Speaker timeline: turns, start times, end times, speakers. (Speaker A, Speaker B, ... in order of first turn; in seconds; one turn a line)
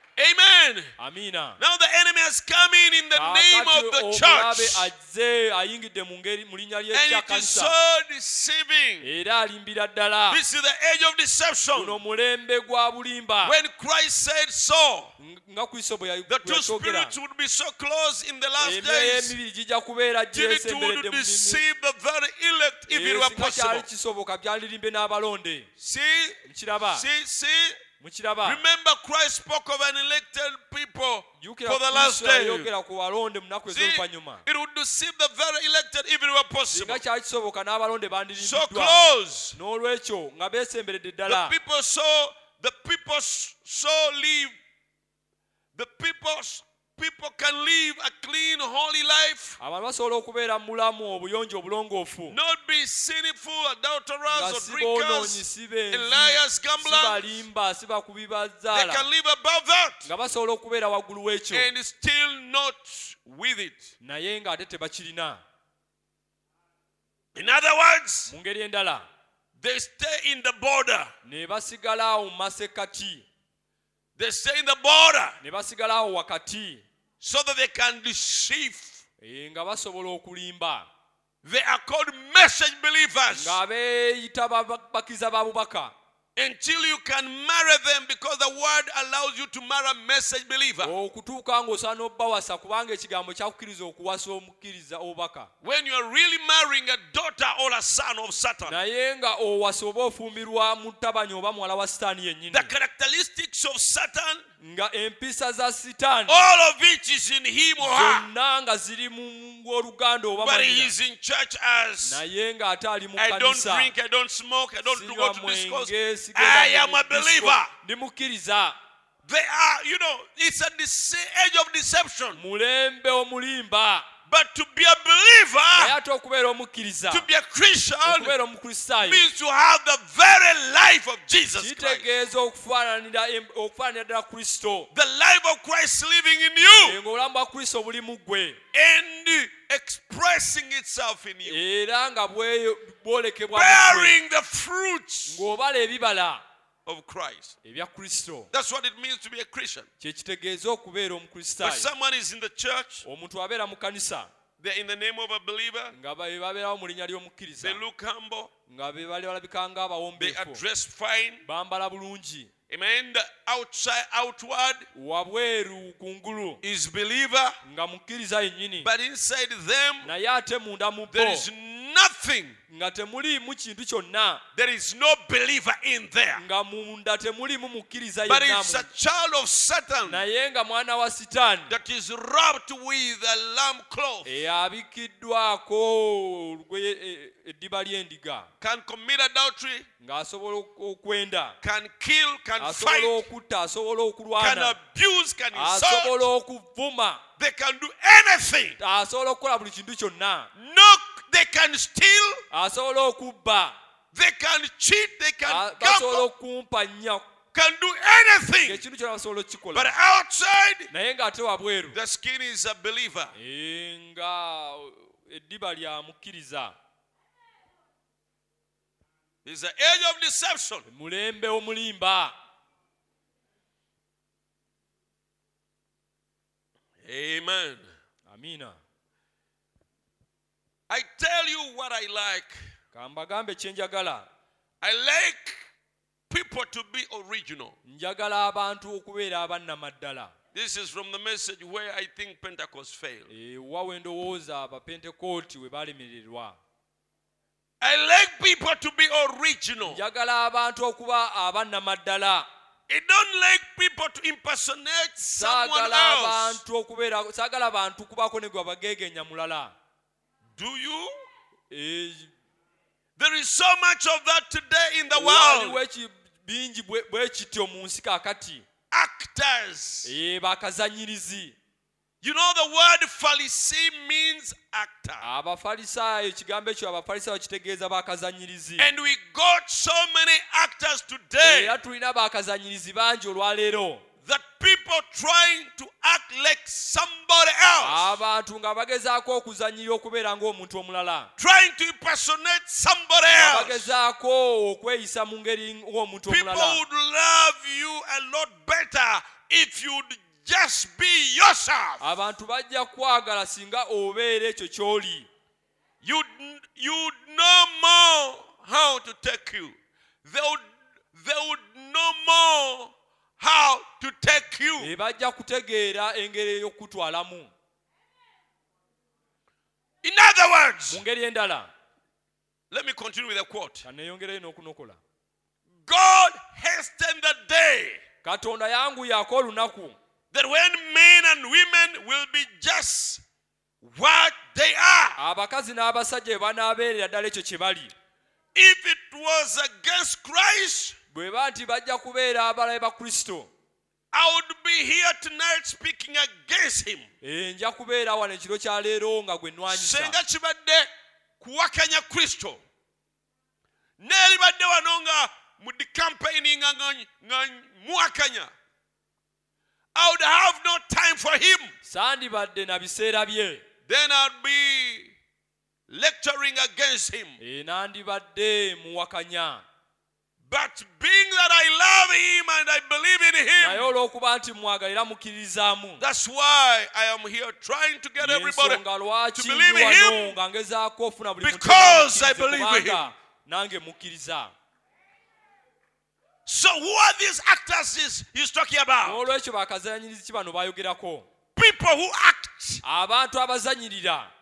Speaker A: 0.2-0.9
Speaker B: 1.0-1.6
Speaker A: 1.6-4.9
Speaker B: 3.1-7.8
Speaker A: 6.9-9.1
Speaker B: 9.0-10.4
Speaker A: 10.3-12.0
Speaker B: 11.7-13.6
Speaker A: 13.4-15.1
Speaker B: 15.2-17.1
Speaker A: 16.3-19.3
Speaker B: 18.6-21.6
Speaker A: 20.3-23.9
Speaker B: 22.9-25.7
Speaker A: 25.8-27.8
Speaker B: 26.4-27.1
Speaker B: 28.0-28.6
Speaker A: 28.4-32.7
Speaker B: 31.4-34.4
Speaker A: 33.7-37.0
Speaker B: 36.7-39.0
Speaker A: 38.4-39.6
Speaker B: 39.5-41.5
Speaker A: 41.3-44.6
Speaker A: 45.7-49.6
Speaker B: 49.6-52.4
Speaker A: 52.3-57.4
Speaker B: 54.3-59.1
Speaker A: 58.7-60.1
Speaker B: 60.0-61.7
Speaker A: 61.5-63.9
Speaker B: 64.0-65.4
Speaker A: 67.3-68.3
Speaker B: 68.3-69.0
Speaker A: 69.6-71.1
Speaker B: 71.2-73.2
Speaker A: 74.2-75.4
Speaker B: 75.4-76.8
Speaker A: 77.2-79.0
Speaker B: 79.2-80.9
Speaker A: 81.4-83.6
Speaker B: 83.3-85.9
Speaker A: 86.3-90.9
Speaker B: 90.8-95.5
Speaker A: 95.6-98.8
Speaker B: 98.7-102.7
Speaker A: 102.5-104.4
Speaker B: 104.6-106.4
Speaker A: 106.3-108.3
Speaker B: 107.8-110.9
Speaker A: 110.4-112.2
Speaker B: 112.0-113.9
Speaker A: 113.2-117.7
Speaker B: 114.8-118.8
Speaker A: 119.2-122.4
Speaker B: 122.3-124.1
Speaker A: 124.3-125.9
Speaker B: 125.7-127.3
Speaker A: 127.1-128.4
Speaker B: 128.0-129.3
Speaker A: 129.0-132.1
Speaker B: 131.6-134.9
Speaker A: 134.9-137.0
Speaker B: 136.8-138.6
Speaker A: 138.7-141.6
Speaker B: 141.4-144.2
Speaker A: 143.5-145.4
Speaker B: 145.3-146.4
Speaker A: 146.8-147.6
Speaker B: 147.6-148.5
Speaker A: 148.5-149.9
Speaker B: 150.0-151.9
Speaker A: 151.6-153.0
Speaker B: 153.0-154.3
Speaker A: 154.6-155.9
Speaker B: 155.9-157.8
Speaker A: 157.6-158.5
Speaker B: 158.7-160.6
Speaker A: 160.2-161.4
Speaker B: 161.4-162.5
Speaker A: 162.7-164.9
Speaker B: 164.9-166.6
Speaker A: 166.6-167.6
Speaker B: 167.6-168.9
Speaker A: 168.8-170.1
Speaker B: 170.0-171.5
Speaker A: 171.1-172.6
Speaker B: 172.7-174.4
Speaker A: 174.5-176.4
Speaker B: 176.3-178.9
Speaker A: 178.3-180.2
Speaker B: 180.0-181.7
Speaker A: 181.7-184.3
Speaker B: 184.2-188.5
Speaker A: 188.6-189.9
Speaker B: 190.0-191.6
Speaker A: 191.6-193.2
Speaker B: 192.6-194.8
Speaker A: 194.4-196.3
Speaker B: 195.5-197.2
Speaker A: 197.4-198.8
Speaker B: 198.8-200.5
Speaker A: 200.5-202.4
Speaker B: 202.5-203.8
Speaker A: 204.1-206.3
Speaker B: 205.4-207.3
Speaker A: 207.5-208.8
Speaker B: 208.6-209.9
Speaker A: 209.7-210.9
Speaker B: 210.9-212.0
Speaker A: 211.9-213.3
Speaker B: 213.3-216.7
Speaker A: 219.4-220.9
Speaker B: 220.9-222.3
Speaker A: 227.0-227.9
Speaker B: 228.2-228.8
Speaker A: 230.9-232.6
Speaker B: 232.9-234.3
Speaker A: 234.8-235.7
Speaker A: 236.3-237.8
Speaker B: 237.8-240.3
Speaker A: 240.5-243.3
Speaker B: 243.3-246.6
Speaker A: 247.8-250.0
Speaker B: 249.8-252.5
Speaker A: 252.9-256.6
Speaker B: 255.3-259.7
Speaker A: 260.6-261.1
Speaker B: 261.7-262.3
Speaker A: 263.2-265.8
Speaker B: 265.1-268.6
Speaker A: 268.9-270.1
Speaker B: 270.0-271.6
Speaker A: 272.2-275.3
Speaker B: 275.2-278.9
Speaker A: 278.8-281.8
Speaker B: 281.4-284.0
Speaker A: 284.2-288.1
Speaker B: 287.8-291.3
Speaker A: 291.4-293.9
Speaker B: 293.3-296.8
Speaker A: 296.3-302.1
Speaker B: 302.0-305.3
Speaker A: 306.0-314.9
Speaker B: 314.8-317.5
Speaker A: 320.0-321.0
Speaker B: 320.9-321.7
Speaker A: 322.7-323.9
Speaker B: 323.8-325.0
Speaker A: 325.8-328.0
Speaker B: 328.2-330.0
Speaker A: 330.3-333.2
Speaker A: 333.8-335.2
Speaker B: 335.2-337.9
Speaker A: 338.5-340.9
Speaker B: 341.1-343.5
Speaker A: 344.1-347.1
Speaker B: 347.2-350.2
Speaker A: 349.7-350.9
Speaker A: 351.4-352.6
Speaker A: 354.0-358.5
Speaker A: 359.9-361.7
Speaker B: 361.8-363.6
Speaker A: 363.9-365.1
Speaker A: 365.9-367.4
Speaker B: 367.4-369.6
Speaker A: 370.4-373.9
Speaker B: 373.6-376.0
Speaker A: 376.0-378.8
Speaker B: 378.2-384.5
Speaker A: 379.3-380.4
Speaker A: 381.4-383.1
Speaker A: 386.4-389.2
Speaker B: 389.0-391.3
Speaker A: 391.5-392.8
Speaker B: 392.8-394.3